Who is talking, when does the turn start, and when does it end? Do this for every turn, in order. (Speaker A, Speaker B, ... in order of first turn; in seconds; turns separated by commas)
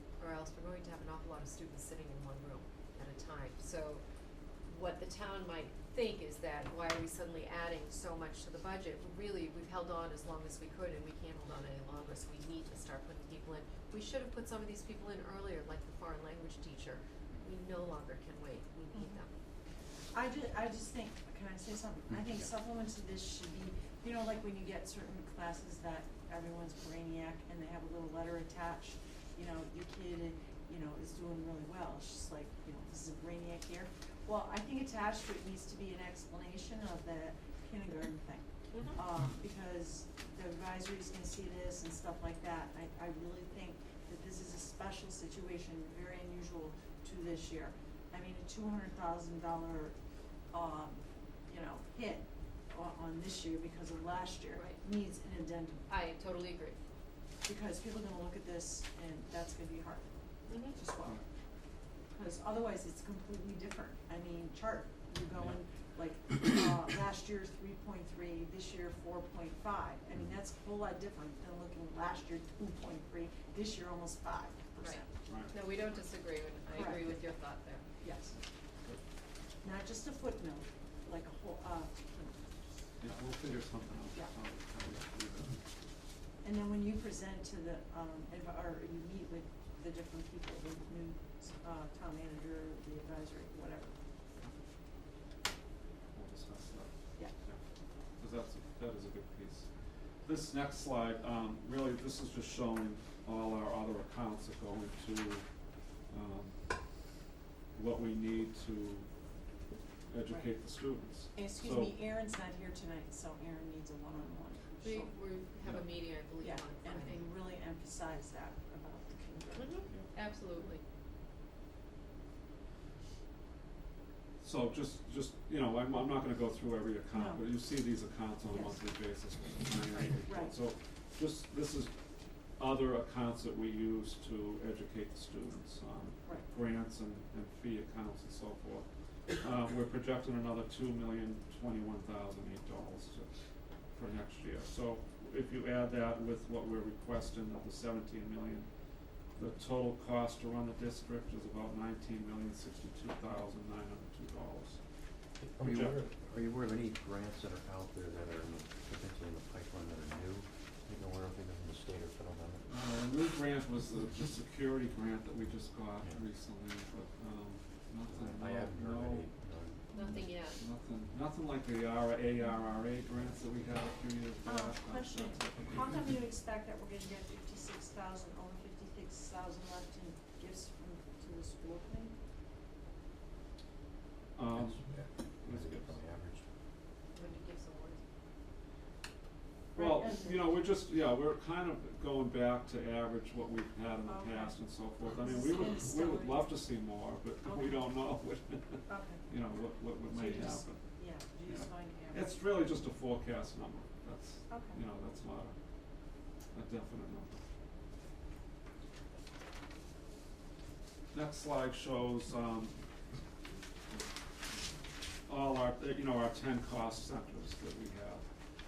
Speaker A: 0.2-4.0, Speaker A: 4.7-19.3, Speaker B: 18.9-19.2, Speaker B: 20.1-50.0, Speaker A: 38.7-39.0, Speaker B: 50.5-55.9, Speaker A: 54.5-54.8, Speaker A: 55.9-56.8, Speaker B: 57.5-60.1, Speaker A: 60.5-60.8, Speaker B: 60.7-61.2, Speaker B: 62.1-75.1, Speaker A: 74.8-77.8, Speaker C: 75.3-75.6, Speaker B: 76.7-77.3, Speaker B: 78.0-78.4, Speaker B: 79.6-82.4, Speaker C: 83.0-85.6, Speaker B: 86.4-93.9, Speaker C: 96.1-97.6, Speaker C: 98.2-99.7, Speaker C: 100.2-105.5, Speaker C: 106.1-106.6, Speaker C: 107.7-109.1, Speaker C: 110.1-112.0, Speaker B: 110.3-110.6, Speaker B: 111.3-115.2, Speaker A: 114.8-117.3, Speaker C: 115.6-115.9, Speaker B: 116.4-119.8, Speaker A: 119.5-120.8, Speaker C: 119.9-120.7, Speaker C: 124.4-131.9, Speaker B: 127.1-127.5, Speaker B: 128.4-128.8, Speaker B: 130.3-130.6, Speaker C: 132.6-138.9, Speaker C: 139.4-143.3, Speaker C: 143.9-148.7, Speaker C: 149.4-154.8, Speaker D: 155.4-162.6, Speaker C: 155.6-156.1, Speaker C: 162.7-169.3, Speaker D: 168.1-170.2, Speaker A: 169.9-170.6, Speaker C: 170.0-176.2, Speaker B: 174.4-182.1, Speaker C: 184.4-186.0, Speaker D: 184.6-184.8, Speaker D: 185.5-186.4, Speaker A: 187.1-188.0, Speaker C: 189.7-200.9, Speaker B: 189.8-190.5, Speaker B: 194.1-196.6, Speaker B: 197.4-197.9, Speaker B: 198.9-199.3, Speaker B: 200.1-202.3, Speaker C: 201.5-205.6, Speaker B: 204.5-204.8, Speaker C: 206.5-207.4, Speaker C: 211.1-212.8, Speaker C: 215.3-218.3